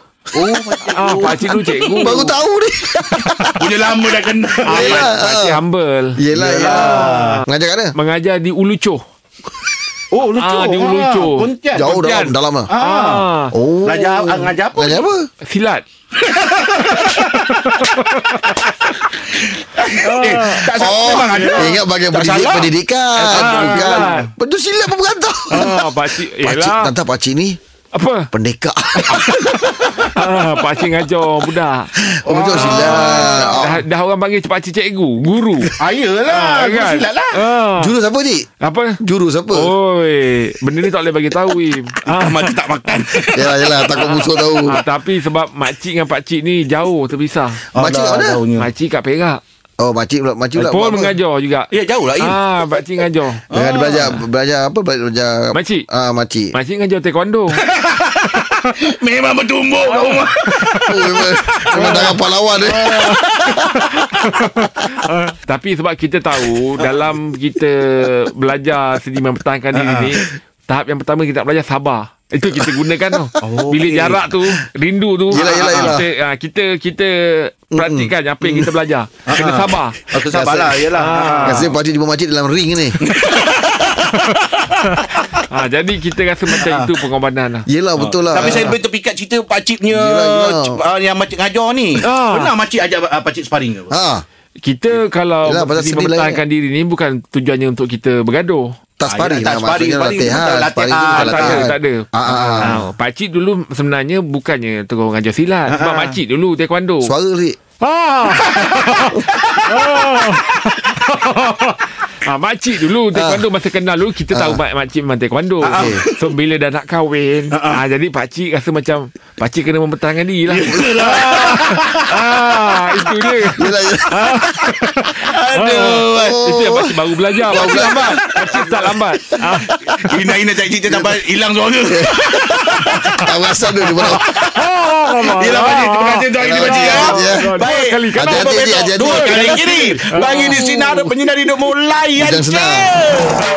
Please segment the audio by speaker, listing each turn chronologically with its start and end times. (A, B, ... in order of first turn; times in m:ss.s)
0:00.3-0:02.2 A
0:00.3-0:03.8 B
0:00.8-0:02.4 C
0:03.2-0:03.5 C
0:03.6-0:05.1 A
0:04.6-0:09.0 C
0:04.6-0:05.6 B
0:06.2-0:07.9 B
0:06.3-0:07.4 A
0:10.1-0:11.9 A
0:10.3-0:13.5 C
0:11.7-0:12.7 B
0:12.7-0:13.3 A
0:13.5-0:15.2 B
0:13.8-0:15.1 A
0:15.4-0:15.8 C
0:16.2-0:17.4 A
0:16.8-0:18.9 C
0:19.2-0:24.3 A
0:19.9-0:21.8 C
0:20.7-0:27.6 B
0:23.2-0:24.3 C
0:25.5-0:26.9 C
0:27.9-0:28.3 C
0:28.3-0:29.5 B
0:29.0-0:35.7 C
0:32.1-0:33.8 B
0:32.3-0:33.5 A
0:35.8-0:37.3 A
0:36.3-0:37.9 C
0:37.8-0:38.5 B
0:38.6-0:39.0 C
0:39.0-0:39.7 B
0:39.5-0:43.4 C
0:42.0-0:43.7 A
0:43.3-0:44.8 B
0:43.9-0:47.6 C
0:47.7-0:48.7 A
0:47.7-0:48.4 B
0:48.6-0:49.4 C
0:49.8-0:51.1 B
0:50.6-0:53.4 C
0:51.7-0:52.4 A
0:53.5-0:56.5 B
0:53.5-0:54.2 A
0:55.5-0:55.8 C
0:56.5-0:57.6 C
0:57.5-1:02.2 A
0:59.8-1:00.9 C
1:00.9-1:03.0 B
1:01.7-1:02.2 C
1:02.7-1:04.0 A
1:02.7-1:20.1 C
1:09.7-1:10.2 A
1:13.4-1:14.4 A
1:15.3-1:16.0 A
1:15.3-1:16.0 B
1:17.7-1:18.7 B
1:19.3-1:21.7 A
1:20.2-1:23.0 B
1:20.9-1:21.7 C
1:23.0-1:25.2 A
1:25.5-1:27.7 C
1:26.6-1:26.9 A
1:27.7-1:28.8 B
1:28.0-1:33.9 A
1:29.9-1:30.8 B
1:32.0-1:32.5 C
1:33.9-1:34.2 B
1:34.6-1:38.7 C
1:35.4-1:36.4 B
1:39.0-1:42.8 B
1:39.1-1:41.7 A
1:41.1-1:47.1 C
1:45.7-1:46.2 A
1:47.0-1:47.6 B
1:47.8-2:09.7 C
1:48.5-1:50.4 A
1:53.1-1:53.4 B
1:54.3-1:54.6 B
1:55.6-1:56.3 A
1:55.6-1:56.0 B
1:57.5-1:57.8 A
2:00.5-2:02.0 A
2:03.5-2:04.3 B
2:04.3-2:06.3 A
2:06.1-2:06.9 B
2:07.4-2:08.8 A
2:07.4-2:08.6 B
2:09.5-2:11.2 B
2:10.0-2:23.4 A
2:11.8-2:12.5 B
2:13.1-2:14.3 B
2:14.4-2:21.1 C
2:16.4-2:19.9 B
2:22.2-2:23.0 B